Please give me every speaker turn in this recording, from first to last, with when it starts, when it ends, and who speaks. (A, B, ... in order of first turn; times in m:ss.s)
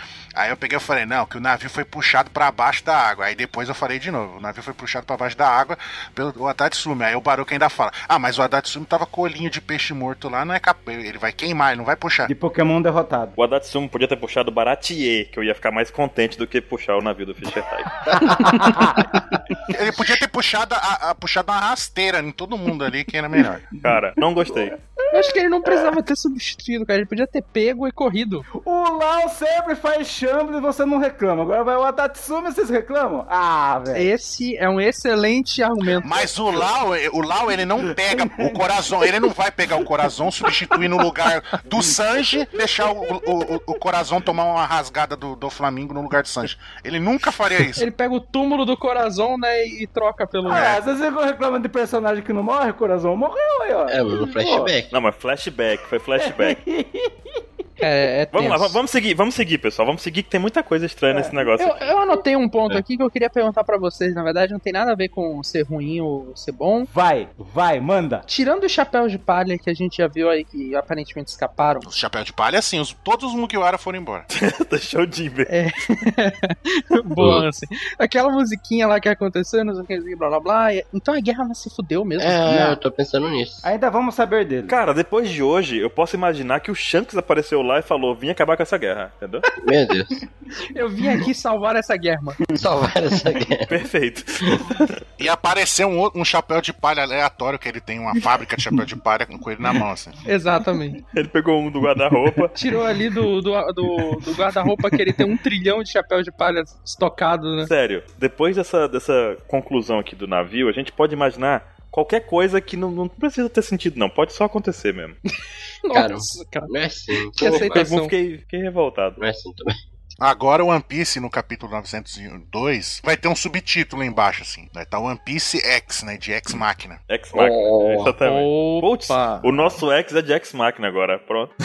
0:00.3-0:12.3 A
0:12.2-0:13.3 B
0:13.4-0:18.6 C
0:18.1-0:19.7 B
0:18.3-0:19.2 D
0:19.7-0:23.6 A
0:23.8-0:24.8 C
0:23.9-0:25.9 B
0:25.1-0:28.5 D
0:28.6-0:34.1 B
0:33.9-0:36.3 D
0:36.0-0:47.8 A
0:37.8-0:38.8 B
0:47.8-0:50.7 D
0:50.4-0:54.0 B
0:50.5-0:50.8 A
0:53.9-0:54.9 E
0:54.3-0:54.7 D
0:54.9-0:56.6 C
0:56.2-0:57.4 B
0:57.8-0:58.8 D
0:58.3-1:01.9 C
1:01.6-1:06.9 D
1:06.9-1:08.2 B
1:08.3-1:11.9 D
1:11.8-1:14.3 A
1:14.3-1:15.5 C
1:15.5-1:22.8 D
1:17.2-1:17.4 E
1:22.2-1:23.7 E
1:22.5-1:22.7 B
1:23.6-1:24.8 B
1:24.7-1:29.4 C
1:29.6-1:30.2 E
1:30.7-1:32.4 D
1:32.5-1:33.7 E
1:32.6-1:33.4 B
1:33.7-1:35.0 C
1:34.4-1:34.8 E
1:35.2-1:40.2 A
1:40.2-1:41.0 D
1:41.1-1:42.6 C
1:42.5-1:47.7 D
1:47.6-1:55.2 C
1:55.8-1:56.7 D
1:55.9-1:57.8 E
1:57.3-1:58.1 D
1:57.4-1:59.2 C
1:59.2-1:59.8 E
2:00.2-2:07.0 A
2:07.1-2:11.5 C
2:07.3-2:08.2 E
2:08.2-2:09.5 D